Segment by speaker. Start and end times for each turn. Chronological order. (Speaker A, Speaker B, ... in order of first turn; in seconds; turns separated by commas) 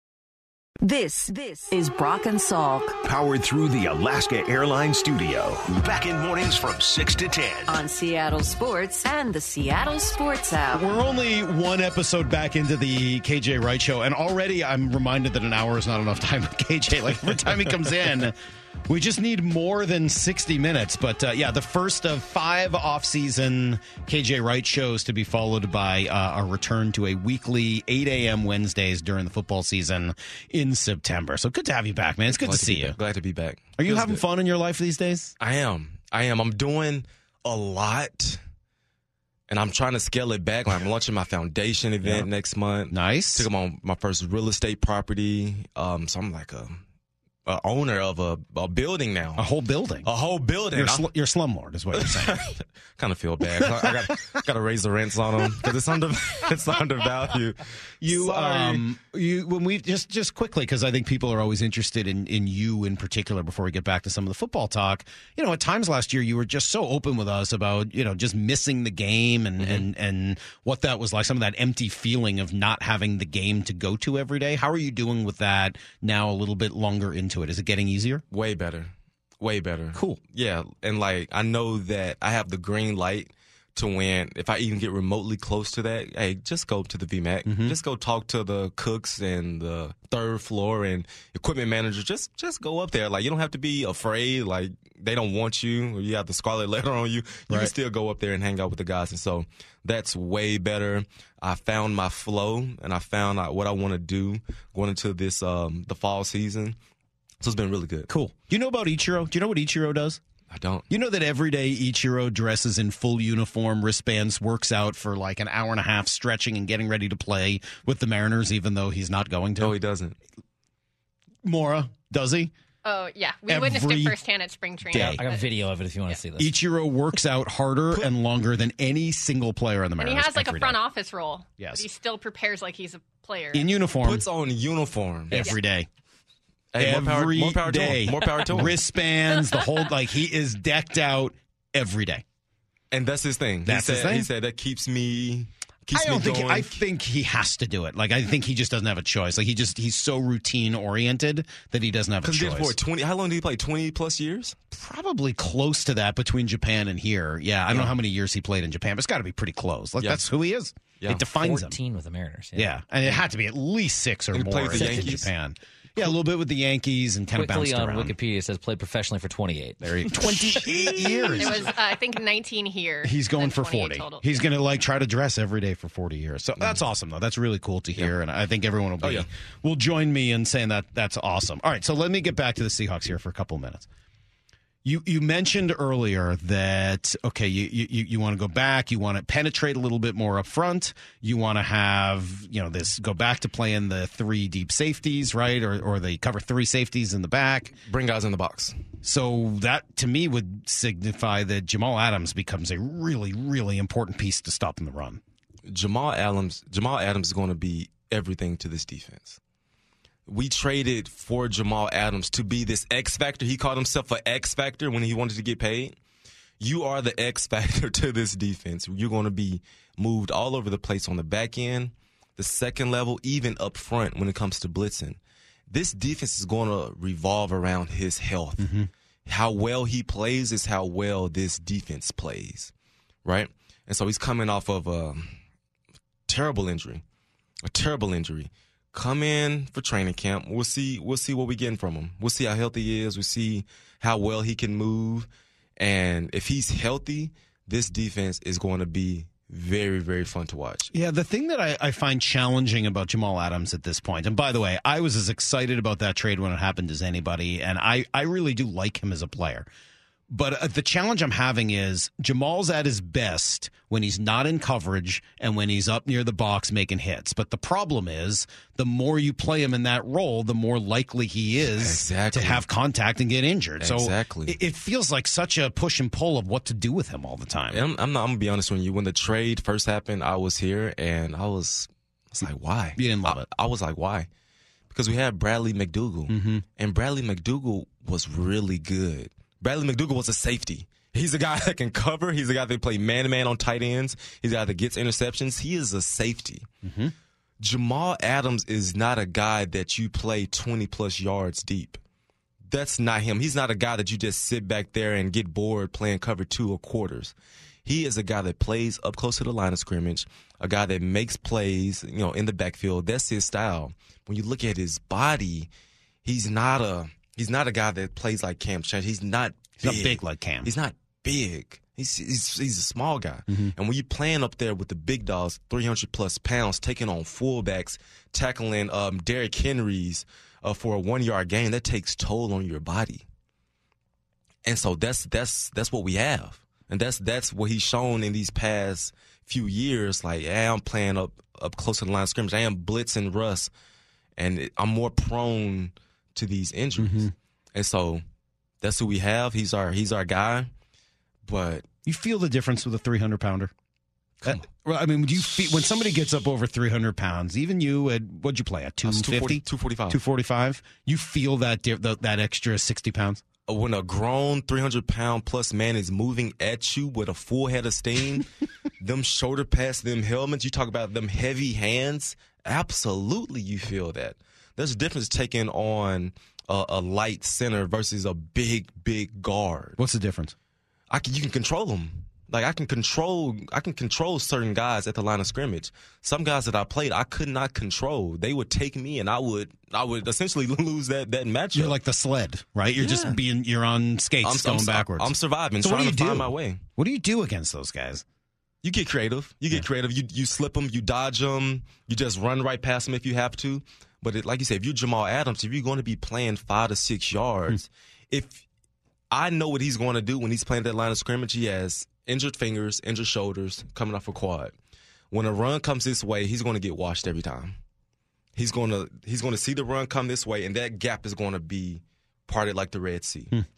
Speaker A: 0.8-3.0, Speaker B: 3.0-7.8, Speaker A: 7.7-10.9, Speaker C: 10.7-33.0, Speaker D: 32.3-34.2, Speaker C: 33.8-35.3, Speaker D: 35.4-38.4, Speaker D: 39.5-46.8, Speaker C: 42.0-42.3, Speaker C: 42.9-43.5, Speaker D: 47.5-49.5, Speaker C: 49.4-50.1, Speaker D: 50.0-51.1, Speaker C: 50.7-52.4, Speaker D: 51.9-58.9, Speaker C: 53.6-54.4, Speaker C: 58.0-78.2, Speaker D: 69.6-69.8, Speaker D: 78.3-106.8, Speaker C: 79.9-80.2, Speaker C: 87.5-87.8, Speaker D: 107.4-108.1, Speaker C: 108.1-110.2, Speaker D: 110.5-110.9, Speaker C: 110.9-119.8, Speaker D: 119.6-120.2, Speaker C: 121.4-122.5, Speaker E: 122.8-125.5, Speaker C: 123.5-124.2, Speaker C: 124.9-125.2, Speaker F: 124.9-126.5, Speaker C: 126.4-130.8, Speaker E: 130.0-133.7, Speaker C: 131.6-131.8, Speaker C: 133.5-134.2, Speaker D: 134.0-135.5, Speaker F: 135.3-135.6, Speaker C: 135.3-135.9, Speaker D: 136.7-138.8, Speaker C: 136.8-142.2, Speaker D: 142.9-146.8, Speaker C: 143.7-144.3, Speaker C: 145.9-152.8, Speaker D: 152.2-154.6, Speaker C: 154.7-161.8, Speaker D: 157.7-157.9, Speaker D: 161.0-161.2, Speaker F: 161.3-163.1, Speaker C: 162.6-168.2, Speaker D: 164.3-165.3, Speaker F: 164.7-165.2, Speaker F: 167.3-170.4, Speaker C: 169.8-171.7, Speaker D: 170.5-171.4, Speaker E: 170.9-174.2, Speaker C: 173.0-183.9, Speaker D: 179.0-179.3, Speaker C: 184.8-197.8, Speaker D: 197.8-198.8, Speaker C: 199.0-205.2, Speaker D: 205.7-209.4, Speaker D: 210.3-216.0, Speaker D: 216.6-225.2, Speaker D: 225.7-228.7, Speaker C: 228.6-228.9, Speaker D: 229.3-232.7, Speaker D: 233.2-235.4, Speaker D: 236.3-237.0, Speaker D: 237.6-250.9, Speaker C: 250.9-259.7, Speaker C: 260.3-277.8, Speaker D: 271.7-272.6, Speaker D: 273.8-274.6, Speaker D: 277.7-284.3, Speaker C: 283.0-283.5, Speaker D: 284.9-296.7, Speaker C: 286.3-286.6, Speaker C: 296.8-297.1, Speaker D: 297.6-302.0, Speaker D: 302.7-315.7, Speaker D: 316.2-333.2, Speaker C: 319.8-320.7, Speaker C: 323.5-323.7, Speaker D: 334.6-343.7, Speaker D: 344.4-348.2, Speaker C: 347.0-347.3, Speaker D: 348.8-350.7, Speaker D: 351.4-351.9, Speaker C: 352.1-353.7, Speaker D: 354.4-354.7, Speaker C: 354.5-363.4, Speaker D: 359.1-360.2, Speaker D: 363.7-380.0, Speaker C: 380.0-380.6, Speaker D: 381.1-392.0, Speaker C: 391.8-398.2, Speaker D: 393.0-393.4, Speaker D: 394.4-396.8, Speaker D: 398.8-408.6, Speaker D: 409.3-414.7, Speaker D: 415.3-417.8, Speaker D: 418.6-423.5